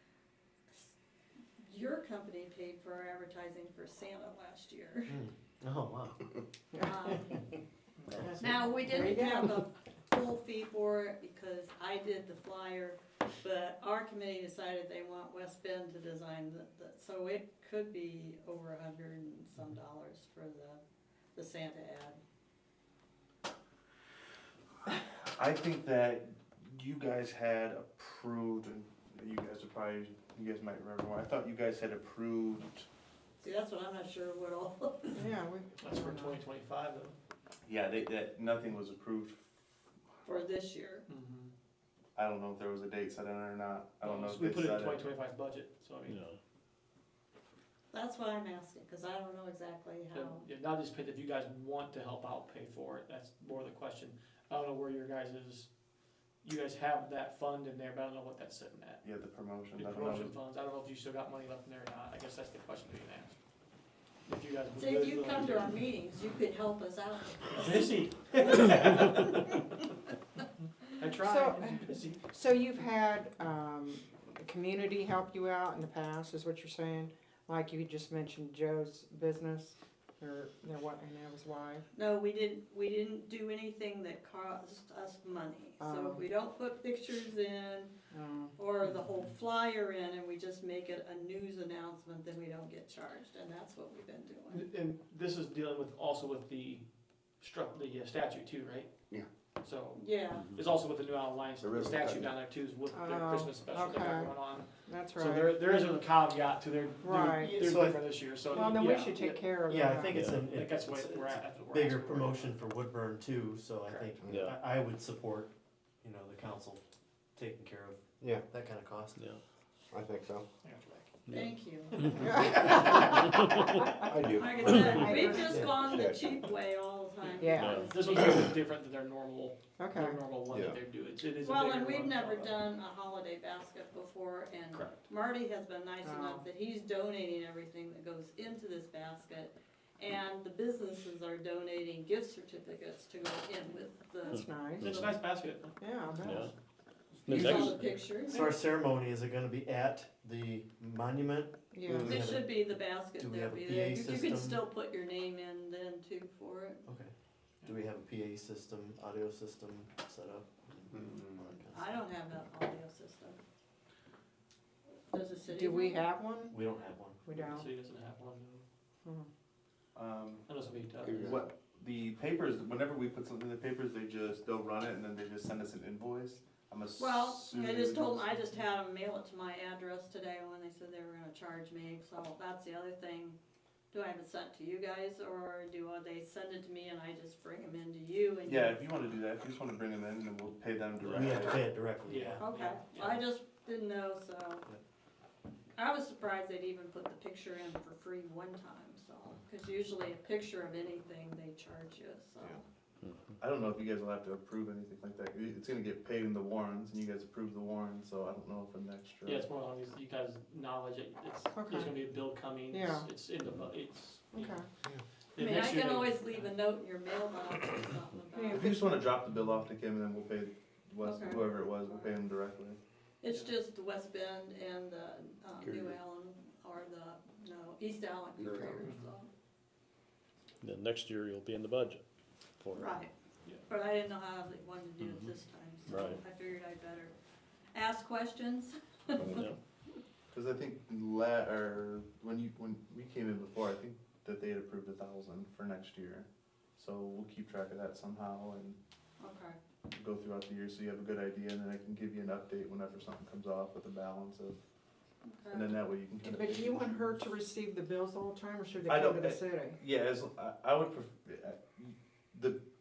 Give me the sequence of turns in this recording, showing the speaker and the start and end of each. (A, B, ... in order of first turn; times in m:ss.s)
0:01.6-0:05.2 A
0:05.1-0:06.3 B
0:06.7-0:07.1 C
0:06.8-0:07.4 A
0:08.0-0:08.3 D
0:08.2-0:09.5 C
0:08.4-0:20.8 A
0:21.3-0:22.2 A
0:24.9-0:32.9 E
0:33.4-0:35.3 A
0:35.1-0:36.4 C
0:35.8-0:37.2 D
0:37.6-0:39.5 E
0:40.2-0:41.0 A
0:41.1-0:41.5 D
0:42.1-0:45.0 E
0:44.0-0:46.2 D
0:46.0-0:46.4 F
0:47.9-0:50.4 A
0:50.1-0:55.7 D
0:56.4-0:59.1 D
0:59.0-1:00.3 E
0:59.7-1:03.4 D
1:04.2-1:05.8 D
1:04.7-1:07.6 A
1:07.5-1:09.6 D
1:10.8-1:12.2 D
1:11.2-1:21.8 C
1:21.9-1:27.9 A
1:25.8-1:26.2 C
1:28.1-1:28.6 C
1:28.6-1:34.6 A
1:28.8-1:29.2 D
1:34.5-1:39.1 D
1:39.6-1:49.8 D
1:39.9-1:40.5 A
1:40.3-1:40.7 F
1:41.6-1:42.4 G
1:42.9-1:45.8 C
1:47.0-1:47.7 C
1:47.4-1:48.3 B
1:48.5-1:50.2 C
1:49.6-1:55.5 B
1:50.1-1:50.5 F
1:50.3-1:52.6 D
1:53.8-1:54.1 D
1:54.2-1:54.5 G
1:54.3-1:54.6 F
1:56.0-1:56.8 B
1:57.3-1:59.2 B
1:59.2-1:59.4 F
1:59.9-2:00.4 G
2:00.6-2:01.1 D
2:01.2-2:02.7 F
2:01.3-2:02.3 A
2:02.1-2:03.5 C
2:04.0-2:06.4 G
2:04.3-2:08.5 A
2:05.0-2:05.5 C
2:07.4-2:07.9 C
2:07.5-2:07.9 F
2:07.7-2:12.6 D
2:09.8-2:10.2 C
2:10.5-2:10.8 G
2:11.4-2:25.1 A
2:14.7-2:15.0 D
2:16.0-2:16.4 C
2:24.3-2:25.0 C
2:24.3-2:25.2 F
2:24.8-2:25.8 D
2:25.8-2:26.5 C
2:26.2-2:26.5 F
2:27.2-2:28.0 F
2:27.3-2:28.4 A
2:27.3-2:28.6 D
2:28.3-2:34.6 B
2:31.7-2:32.1 C
2:31.9-2:32.3 G
2:32.0-2:36.8 A
2:36.8-2:37.1 B
2:37.6-2:42.0 B
2:40.9-2:41.5 G
2:41.7-2:43.4 A
2:45.1-2:46.1 A
2:45.5-2:46.6 C
2:46.5-2:47.2 B
2:47.2-2:47.7 C
2:47.3-2:48.6 D
2:49.9-2:50.4 E
2:50.5-2:51.3 D
2:51.0-2:51.5 G
2:51.2-2:58.5 E
2:57.0-3:03.4 A
3:03.9-3:08.9 A
3:08.4-3:11.7 E
3:11.0-3:12.4 B
3:12.1-3:13.2 D
3:12.4-3:14.7 A
3:15.8-3:22.6 A
3:23.0-3:23.4 F
3:23.4-3:29.5 E
3:29.2-3:34.6 D
3:31.5-3:31.9 C
3:32.7-3:33.1 C
3:34.3-3:34.7 C
3:35.3-3:36.6 D
3:35.4-3:38.7 A
3:38.3-3:38.8 C
3:38.5-3:42.8 E
3:41.0-3:42.2 A
3:43.2-3:49.3 A
3:45.6-3:46.0 G
3:48.4-3:48.8 G
3:48.8-3:49.1 D
3:50.6-3:52.0 F
3:52.6-3:53.0 F
3:52.7-3:53.1 A
3:53.7-3:57.1 A
3:55.0-3:55.3 F
3:55.9-3:56.2 F
3:57.7-3:59.5 A
3:59.2-3:59.6 F
4:00.3-4:08.8 E
4:09.2-4:09.6 A
4:09.9-4:14.6 E
4:15.2-4:15.8 A
4:15.5-4:17.0 E
4:16.2-4:19.8 C
4:18.8-4:22.6 E